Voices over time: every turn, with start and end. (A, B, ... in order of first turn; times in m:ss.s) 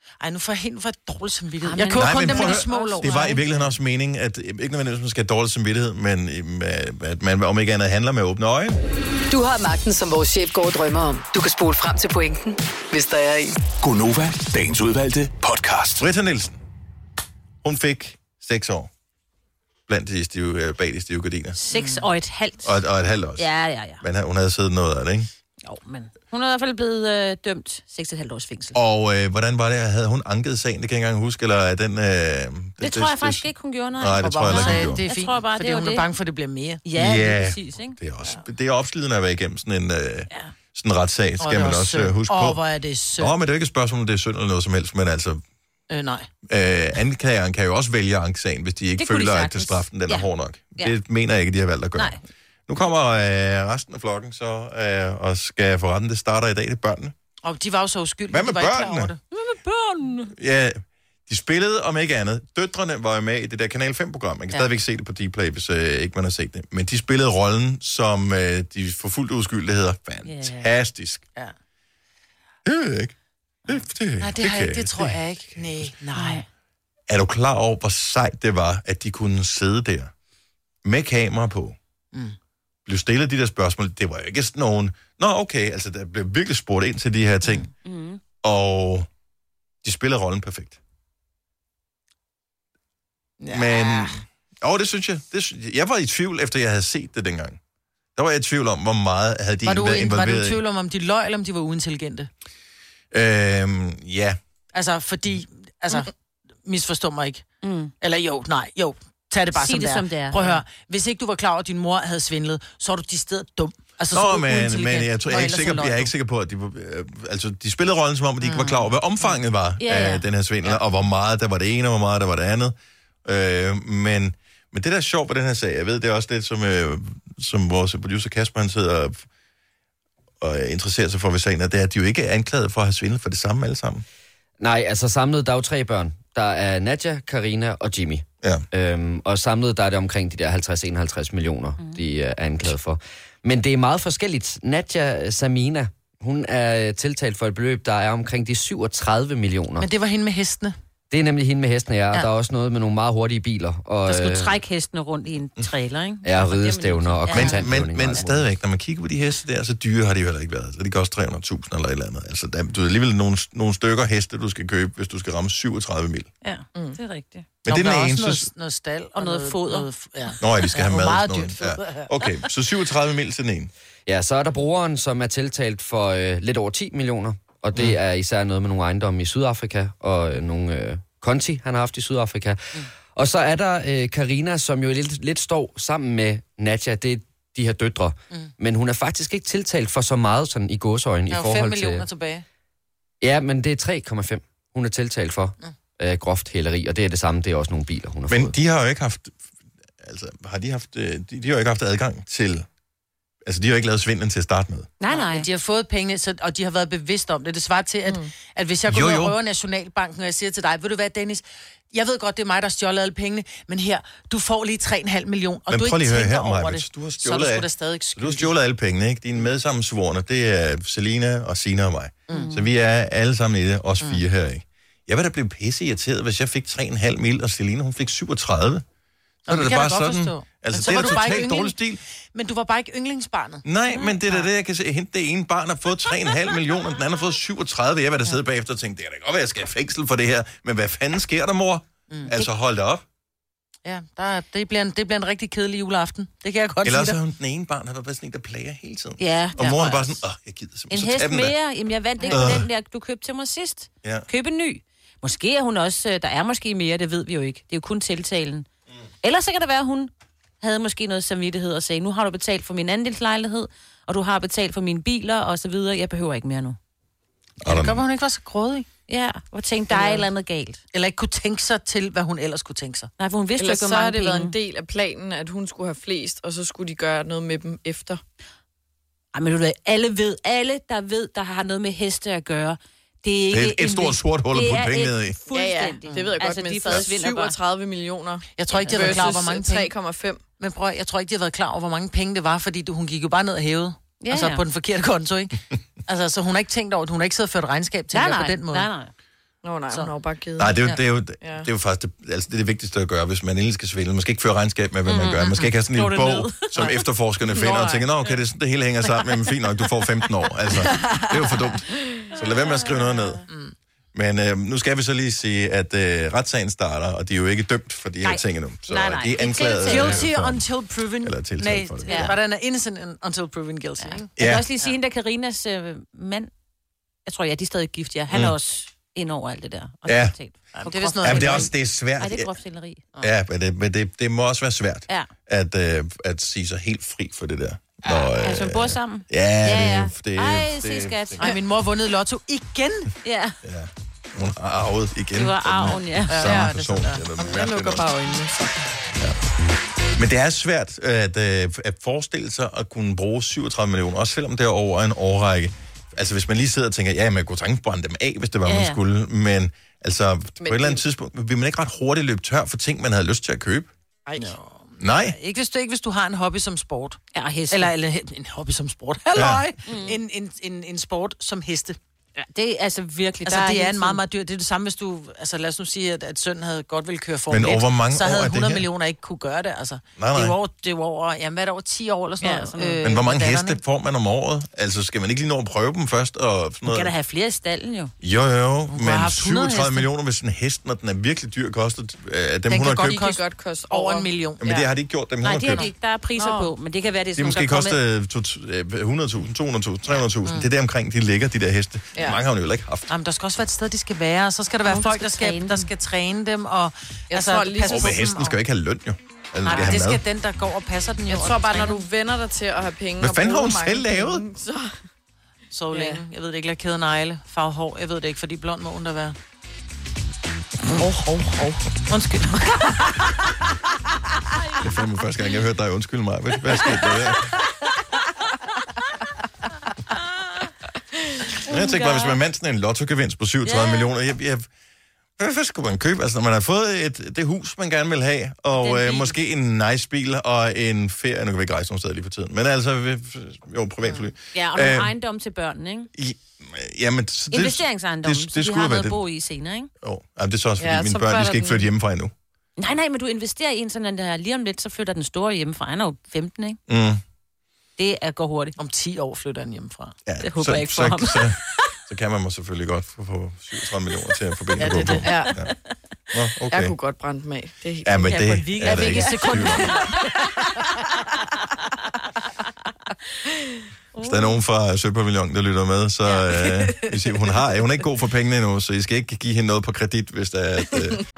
0:00.2-0:03.4 A
0:01.6-0:03.6 B
0:01.9-0:08.8 C
0:09.3-0:13.6 D
0:13.8-0:16.0 E
0:16.0-0:16.6 C
0:17.6-0:18.9 C
0:19.9-0:21.6 C
0:21.6-0:22.8 B
0:21.7-0:22.0 A
0:22.6-0:23.5 C
0:23.4-0:24.0 B
0:24.0-0:25.3 C
0:25.6-0:28.8 B
0:28.8-0:35.0 C
0:32.8-0:36.1 B
0:34.2-0:36.8 A
0:36.8-0:38.0 B
0:37.0-0:42.6 C
0:41.4-0:43.4 A
0:43.2-0:45.4 C
0:45.9-0:46.3 A
0:46.5-0:52.2 C
0:49.0-0:50.9 B
0:52.7-0:57.1 C
0:57.4-0:59.2 A
0:58.3-0:59.1 C
0:59.3-1:00.3 B
1:00.4-1:11.2 C
1:10.2-1:10.7 B
1:12.6-1:13.1 C
1:13.7-1:15.9 C
1:13.7-1:16.4 A
1:16.2-1:16.4 B
1:17.1-1:20.1 C
1:20.8-1:21.8 C
1:22.9-1:27.7 C
1:27.8-1:28.2 B
1:28.4-1:29.1 C
1:29.8-1:30.8 C
1:33.4-1:34.2 A
1:33.5-1:37.6 C
1:38.2-1:40.6 C
1:39.6-1:42.3 A
1:43.1-1:44.4 C
1:44.7-1:46.1 A
1:46.6-1:47.4 A
1:47.6-1:47.9 B
1:48.0-1:56.1 A
1:49.6-1:50.6 B
1:54.1-2:02.7 C
1:58.4-1:59.4 A
1:59.8-2:00.3 B
2:03.2-2:09.2 C
2:10.4-2:14.0 C
2:14.6-2:29.9 F
2:21.8-2:22.1 B
2:29.8-2:30.7 A
2:31.1-2:34.5 F
2:34.1-2:38.3 B
2:36.2-2:38.4 F
2:37.3-2:46.3 C
2:46.4-2:47.5 B
2:47.6-2:48.5 C
2:47.7-2:52.3 A
2:49.2-2:49.9 B
2:50.4-2:53.7 C
2:54.1-3:02.6 F
3:03.1-3:12.0 F
3:11.3-3:12.4 A
3:13.2-3:18.5 F
3:18.3-3:19.4 C
3:20.0-3:22.7 C
3:23.4-3:24.9 C
3:25.0-3:25.5 B
3:25.1-3:38.5 A
3:28.9-3:29.4 C
3:35.7-3:48.8 C
3:42.3-3:42.7 B
3:49.5-3:51.8 A
3:49.5-3:52.0 C
3:52.3-3:53.6 A
3:53.6-4:03.0 C
4:03.8-4:07.2 A
4:06.8-4:11.6 C
4:09.2-4:10.2 B
4:10.9-4:18.7 B
4:12.3-4:12.7 C
4:19.2-4:26.8 B
4:27.6-4:28.0 C
4:27.7-4:28.9 A
4:29.1-4:30.8 B
4:29.9-4:30.3 A
4:30.9-4:33.1 A
4:33.2-4:34.6 B
4:33.6-4:38.2 G
4:39.3-4:47.6 B
4:43.5-4:45.4 C
4:45.5-4:50.4 G
4:48.6-4:49.9 A
4:48.8-4:49.2 B
4:50.6-4:58.9 A
4:54.2-4:54.6 B
4:58.1-4:59.1 B
4:59.6-5:00.8 G
5:00.6-5:13.4 C
5:01.4-5:01.7 G
5:05.1-5:06.8 B
5:07.6-5:08.0 G
5:10.9-5:11.2 G
5:13.5-5:13.8 A
5:14.1-5:20.6 C
5:18.2-5:20.3 B
5:19.8-5:24.9 A
5:21.2-5:22.4 C
5:22.1-5:22.4 B
5:24.0-5:26.5 B
5:24.4-5:24.6 C
5:27.3-5:33.1 B
5:30.1-5:30.4 C
5:30.8-5:31.7 A
5:31.2-5:32.5 C
5:33.2-5:41.5 C
5:38.3-5:41.6 B
5:41.4-5:43.1 A
5:43.2-5:43.6 B
5:43.6-5:48.1 C
5:45.3-5:46.6 B
5:46.3-5:47.2 A
5:47.4-5:48.7 G
5:50.2-6:03.9 C
5:58.6-5:59.0 B
6:00.6-6:01.0 G
6:04.3-6:04.5 G
6:04.4-6:12.0 A
6:05.0-6:05.4 C
6:07.3-6:07.9 B
6:09.4-6:09.7 C
6:09.9-6:10.2 B
6:12.4-6:14.2 B
6:13.4-6:23.8 A
6:17.5-6:18.9 C
6:20.2-6:20.6 C
6:22.4-6:23.0 B
6:23.0-6:27.1 C
6:26.9-6:28.1 B
6:28.2-6:33.2 C
6:28.9-6:30.1 A
6:32.7-6:34.8 A
6:33.0-6:34.8 G
6:34.6-6:35.9 C
6:35.4-6:38.0 B
6:36.4-6:36.7 G
6:37.4-6:43.1 C
6:42.2-6:42.4 G
6:43.1-6:48.6 A
6:45.2-6:45.9 B
6:47.3-6:48.4 G
6:47.8-6:50.2 C
6:49.6-6:52.0 A
6:51.3-6:55.0 G
6:53.2-6:54.4 C
6:55.7-6:59.4 A
6:55.9-6:56.2 G
7:01.0-7:01.8 G
7:02.1-7:03.2 A
7:04.8-7:07.5 C
7:11.7-7:12.4 B
7:11.7-7:14.7 C
7:13.6-7:14.1 B
7:15.4-7:25.1 C
7:18.7-7:19.4 B
7:24.5-7:26.1 B
7:26.2-7:29.2 C
7:27.5-7:29.9 B
7:30.0-7:32.3 C
7:30.8-7:31.8 G
7:32.8-7:36.8 B
7:36.9-7:37.2 C
7:38.0-7:38.8 B
7:38.8-7:40.2 A
7:40.3-7:45.7 C
7:40.4-7:41.6 B
7:44.8-7:45.3 A
7:45.0-7:45.5 G
7:46.3-7:47.0 C
7:46.7-7:48.5 G
7:48.0-7:50.0 C
7:48.3-7:50.2 B
7:48.9-7:50.3 A
7:54.2-7:54.6 B
7:54.2-8:01.2 C